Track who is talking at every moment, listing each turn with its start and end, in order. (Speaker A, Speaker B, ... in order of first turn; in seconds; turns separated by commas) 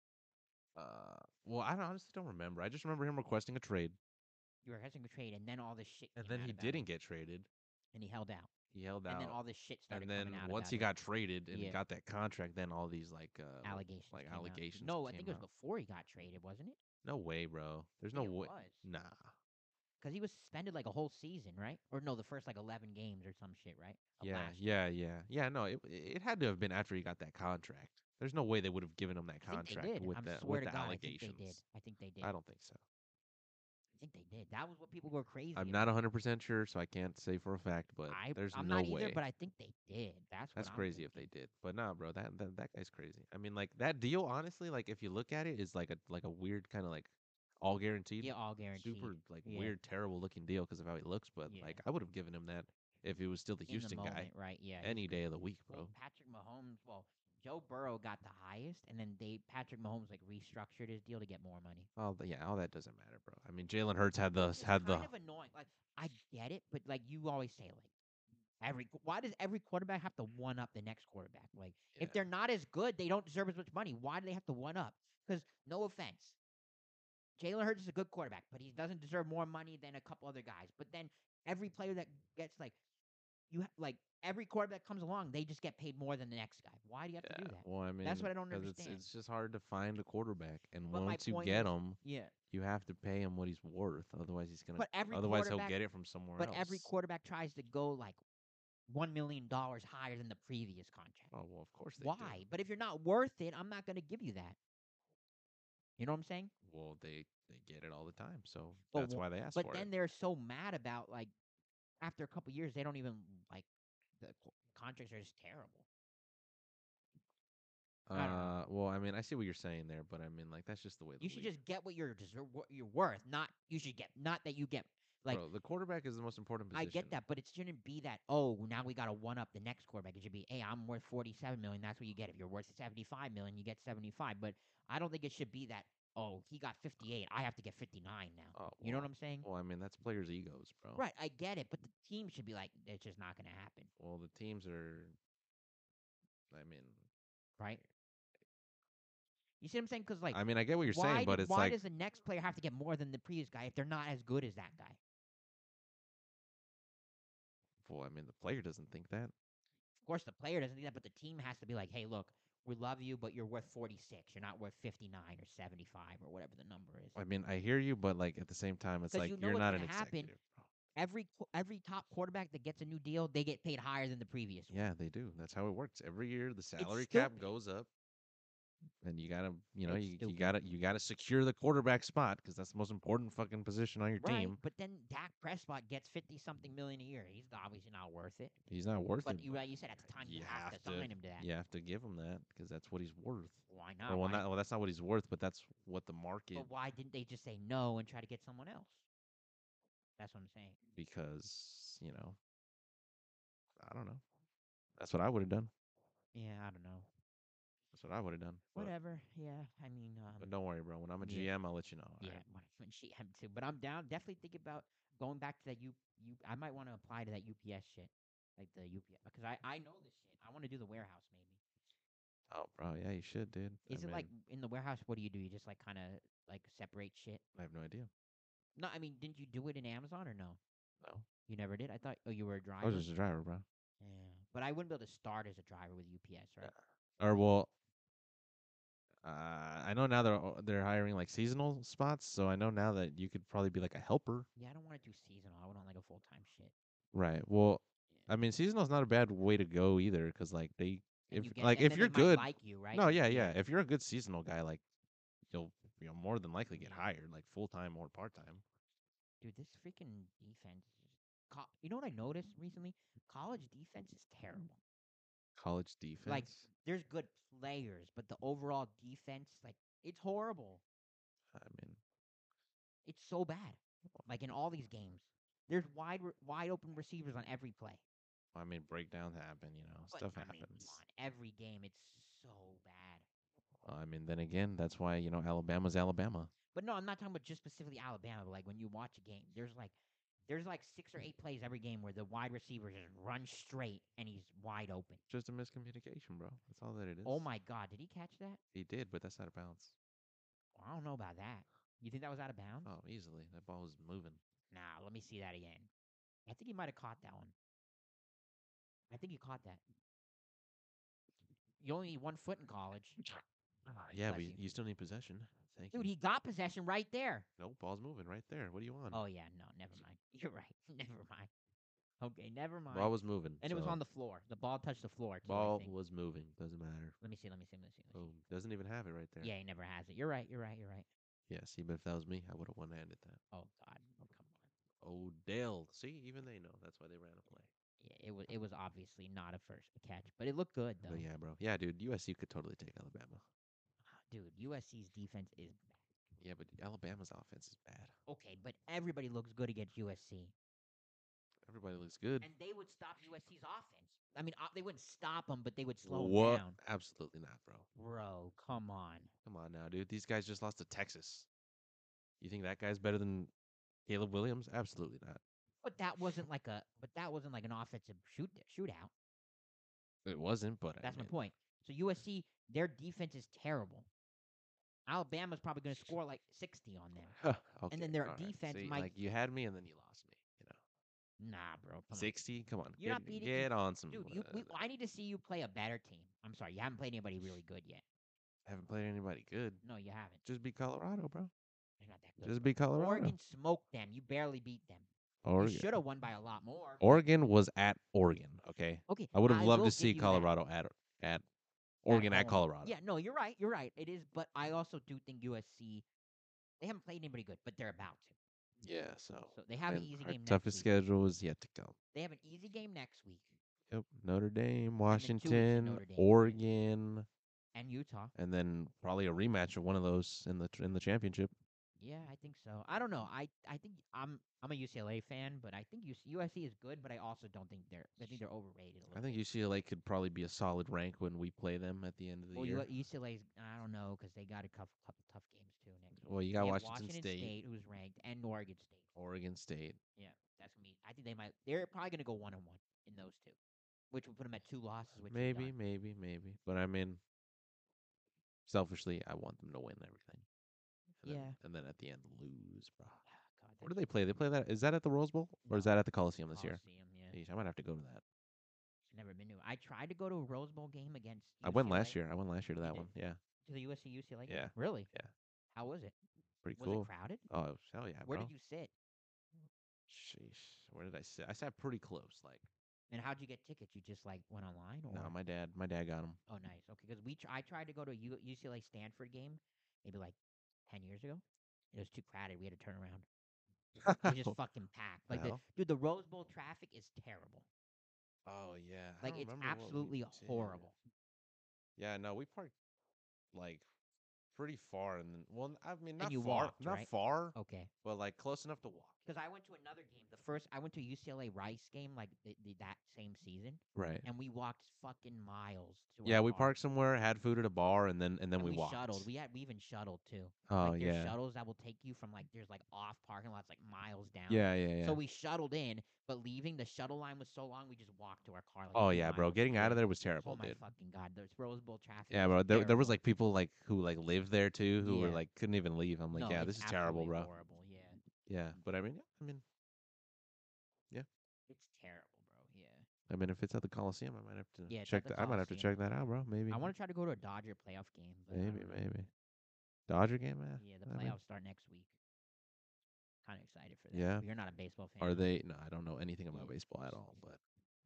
Speaker A: 0.8-4.0, Speaker B: 4.6-6.8, Speaker A: 6.2-7.5, Speaker B: 7.9-8.5, Speaker A: 8.7-9.4, Speaker B: 9.1-10.9, Speaker A: 9.9-15.4, Speaker B: 11.5-11.8, Speaker B: 13.6-16.8, Speaker A: 17.0-19.3, Speaker B: 18.1-18.9, Speaker B: 20.0-24.6, Speaker A: 24.2-31.6, Speaker B: 29.4-32.3, Speaker A: 32.2-32.8, Speaker B: 34.0-35.9, Speaker A: 35.5-39.2, Speaker B: 38.1-41.3, Speaker A: 40.5-55.9, Speaker B: 48.2-49.8, Speaker B: 51.5-51.8, Speaker B: 53.7-61.9, Speaker A: 62.0-65.1, Speaker B: 64.4-67.9, Speaker B: 68.6-76.3, Speaker A: 72.0-72.2, Speaker B: 77.4-82.8, Speaker B: 83.5-89.0, Speaker A: 87.2-92.0, Speaker B: 90.9-92.3, Speaker A: 92.5-96.9, Speaker B: 94.8-95.8, Speaker B: 96.4-98.2, Speaker B: 98.9-101.3, Speaker A: 101.3-102.4, Speaker B: 102.0-104.6, Speaker B: 106.0-106.5, Speaker A: 106.6-109.9, Speaker B: 108.9-111.3, Speaker B: 112.0-113.7, Speaker B: 114.2-115.8, Speaker A: 118.1-121.5, Speaker B: 118.1-118.6, Speaker B: 121.2-125.5, Speaker A: 125.3-127.2, Speaker B: 126.7-139.4, Speaker A: 138.5-141.0, Speaker B: 140.9-143.9, Speaker A: 144.0-145.2, Speaker A: 146.5-147.0, Speaker B: 149.6-155.0, Speaker A: 150.3-151.8, Speaker A: 157.8-159.3, Speaker B: 160.0-167.2, Speaker A: 167.1-170.6, Speaker B: 169.1-170.3, Speaker B: 170.9-174.9, Speaker A: 174.7-177.9, Speaker B: 176.8-177.4, Speaker A: 179.0-184.6, Speaker B: 179.8-180.5, Speaker B: 184.2-188.5, Speaker A: 188.7-196.7, Speaker B: 189.2-191.4, Speaker B: 193.7-194.4, Speaker B: 196.5-199.0, Speaker B: 200.2-200.8, Speaker A: 200.9-202.4, Speaker A: 203.8-204.2, Speaker A: 205.0-205.7, Speaker B: 206.3-207.1, Speaker A: 207.9-208.9, Speaker B: 208.7-210.5, Speaker A: 210.4-212.4, Speaker B: 211.2-211.5, Speaker B: 212.2-221.6, Speaker A: 222.5-224.3, Speaker B: 223.9-227.4, Speaker A: 227.6-228.1, Speaker B: 228.8-230.6, Speaker B: 231.4-233.1, Speaker A: 232.8-233.6, Speaker B: 234.0-236.7, Speaker A: 236.6-237.7, Speaker A: 239.2-244.5, Speaker B: 244.6-246.7, Speaker A: 247.1-254.8, Speaker B: 251.3-253.6, Speaker A: 255.5-258.6, Speaker B: 256.7-257.1, Speaker B: 259.4-264.8, Speaker A: 265.6-266.7, Speaker B: 266.2-270.8, Speaker A: 271.5-272.0, Speaker B: 273.1-278.0, Speaker A: 278.5-281.0, Speaker B: 280.1-283.2, Speaker A: 283.8-286.5, Speaker B: 286.7-289.9, Speaker B: 290.5-295.2, Speaker A: 295.3-297.5, Speaker B: 297.2-298.6, Speaker A: 298.7-299.9, Speaker B: 300.7-302.9, Speaker A: 302.8-304.4, Speaker B: 304.7-305.9, Speaker B: 306.4-307.5, Speaker B: 309.1-309.8, Speaker B: 311.8-313.2, Speaker A: 313.2-316.1, Speaker B: 314.2-314.6, Speaker B: 315.9-317.5, Speaker A: 317.6-319.2, Speaker B: 319.1-321.5, Speaker B: 322.2-325.9, Speaker A: 322.9-324.0, Speaker A: 325.4-327.2, Speaker B: 327.2-328.4, Speaker A: 328.1-329.5, Speaker B: 329.4-331.1, Speaker A: 331.5-333.4, Speaker B: 333.5-334.7, Speaker A: 335.0-337.7, Speaker B: 338.0-341.3, Speaker A: 341.0-343.4, Speaker B: 344.1-345.9, Speaker A: 346.4-348.1, Speaker B: 348.3-350.5, Speaker A: 351.6-352.5, Speaker B: 352.4-356.8, Speaker A: 356.0-357.9, Speaker B: 357.9-359.3, Speaker A: 359.4-361.5, Speaker A: 362.4-363.5, Speaker A: 364.1-365.4, Speaker B: 365.8-369.1, Speaker A: 370.2-371.3, Speaker B: 371.0-374.1, Speaker B: 375.1-377.4, Speaker A: 377.3-380.8, Speaker B: 377.9-379.1, Speaker B: 381.4-382.3, Speaker A: 382.1-384.7, Speaker B: 383.0-388.0, Speaker A: 388.6-389.8, Speaker B: 389.8-390.4, Speaker A: 390.4-391.5, Speaker B: 392.0-395.1, Speaker A: 392.4-393.3, Speaker A: 395.4-395.9, Speaker B: 395.6-397.0, Speaker A: 397.0-401.4, Speaker B: 399.1-400.5, Speaker A: 402.0-402.9, Speaker B: 402.1-406.0, Speaker B: 406.8-408.4, Speaker A: 408.8-411.9, Speaker B: 409.5-410.9, Speaker B: 412.1-413.6, Speaker A: 413.9-417.2, Speaker B: 415.1-416.6, Speaker B: 417.7-418.3, Speaker A: 418.3-421.5, Speaker B: 422.0-429.4, Speaker A: 429.1-432.9, Speaker B: 432.5-439.1, Speaker A: 436.1-437.5, Speaker A: 439.1-440.0, Speaker B: 440.2-443.6, Speaker B: 444.1-445.7, Speaker A: 445.3-447.2, Speaker A: 448.7-450.4, Speaker A: 451.2-453.2, Speaker B: 451.2-451.6, Speaker B: 453.2-453.9, Speaker A: 453.8-458.2, Speaker B: 455.7-457.4, Speaker B: 459.1-462.2, Speaker A: 461.6-463.4, Speaker B: 462.8-463.1, Speaker B: 463.6-465.1, Speaker A: 464.5-465.3, Speaker B: 465.7-466.2, Speaker A: 466.6-468.5, Speaker B: 466.8-467.4, Speaker B: 468.2-468.9, Speaker A: 470.1-472.7, Speaker B: 473.1-475.4, Speaker A: 475.1-476.4, Speaker B: 476.5-483.2, Speaker A: 484.0-484.6, Speaker B: 484.2-487.6, Speaker A: 485.3-485.6, Speaker A: 488.4-490.9, Speaker B: 489.2-490.9, Speaker A: 492.0-492.7, Speaker A: 493.5-493.8, Speaker A: 494.5-499.2, Speaker B: 496.2-497.9, Speaker B: 499.2-506.7, Speaker A: 503.9-504.2, Speaker A: 506.2-509.3, Speaker B: 508.6-523.2, Speaker A: 510.7-511.3, Speaker A: 514.5-515.2, Speaker A: 518.9-520.8, Speaker A: 522.3-527.5, Speaker B: 525.0-525.4, Speaker B: 526.3-528.2, Speaker A: 528.4-529.6, Speaker B: 531.7-533.0, Speaker A: 533.3-536.9, Speaker B: 534.9-536.1, Speaker B: 536.7-539.0, Speaker A: 538.5-539.3, Speaker A: 540.1-541.4, Speaker B: 540.8-542.1, Speaker B: 543.4-545.5, Speaker A: 544.1-544.5, Speaker A: 545.2-547.6, Speaker B: 546.5-546.8